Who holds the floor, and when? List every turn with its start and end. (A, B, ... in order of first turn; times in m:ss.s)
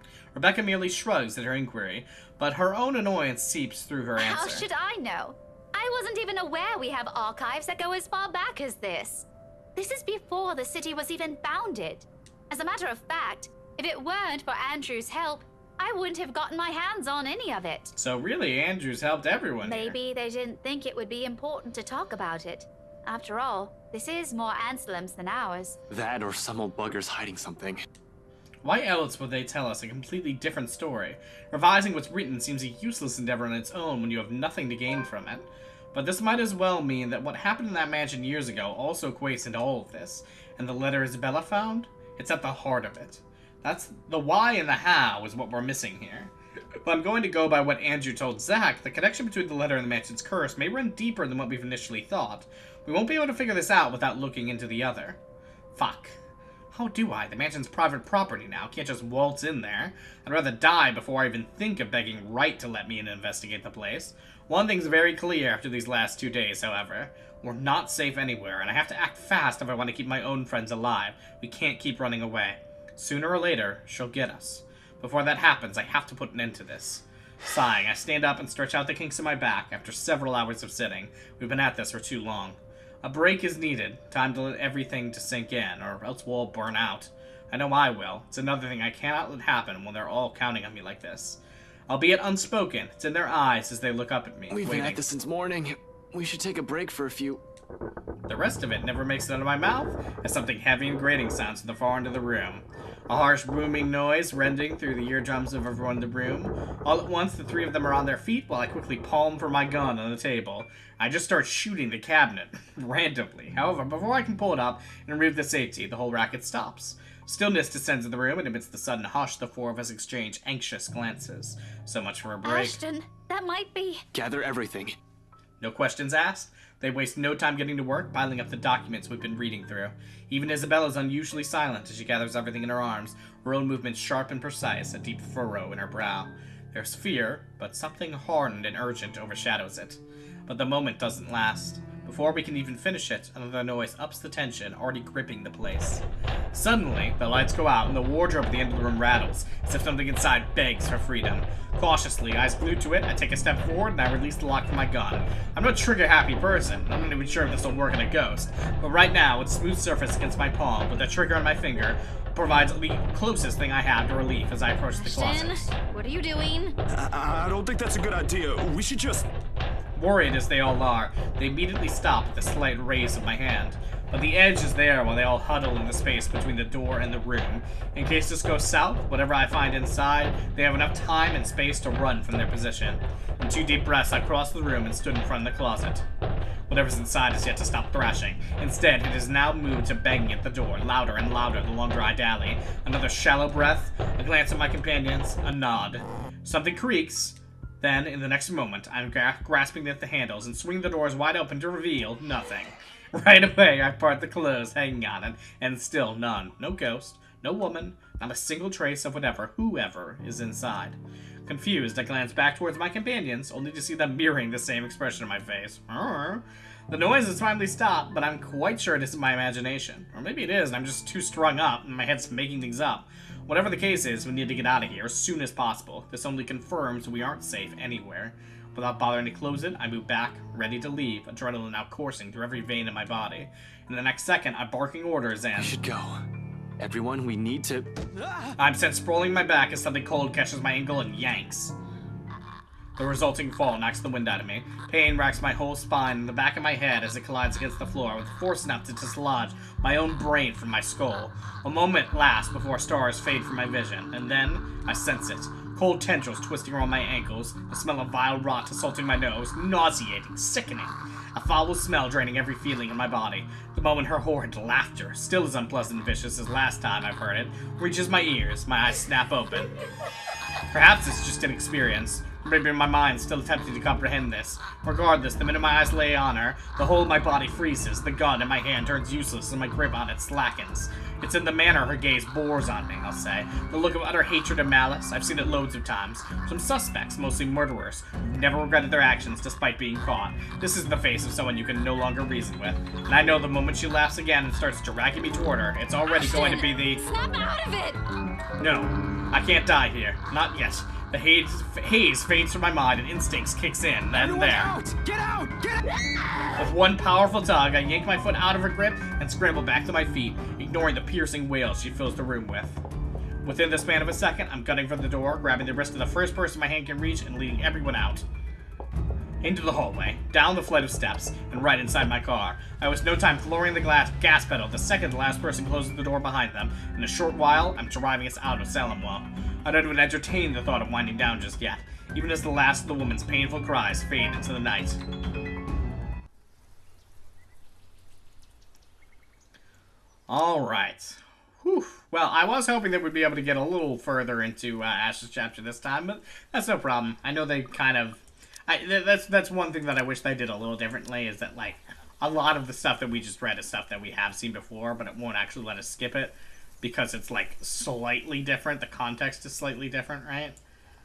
0:00.4-0:04.7 A
0:04.2-0:17.9 B
0:18.0-0:20.0 A
0:19.6-0:25.8 B
0:25.9-0:27.9 C
0:28.6-0:46.3 A
0:46.8-0:55.2 A
0:55.8-0:56.2 A
0:56.7-1:35.0 A
1:34.5-1:37.4 C
1:38.3-2:02.8 A
2:02.4-2:04.0 B
2:04.1-2:05.0 C
2:05.6-2:45.7 A
2:45.0-2:46.8 D
2:46.9-2:49.3 E
2:50.0-3:06.0 A
3:06.7-3:55.8 A
3:55.6-3:56.2 C
3:56.8-3:58.5 C
3:58.6-4:01.7 A
4:03.0-4:29.7 A
4:30.7-4:57.0 A
4:56.1-4:58.0 D
4:58.6-5:04.7 A
5:04.1-5:06.5 C
5:06.6-5:12.8 A
5:13.4-5:18.2 A
5:19.4-5:35.0 A
5:40.3-6:00.6 A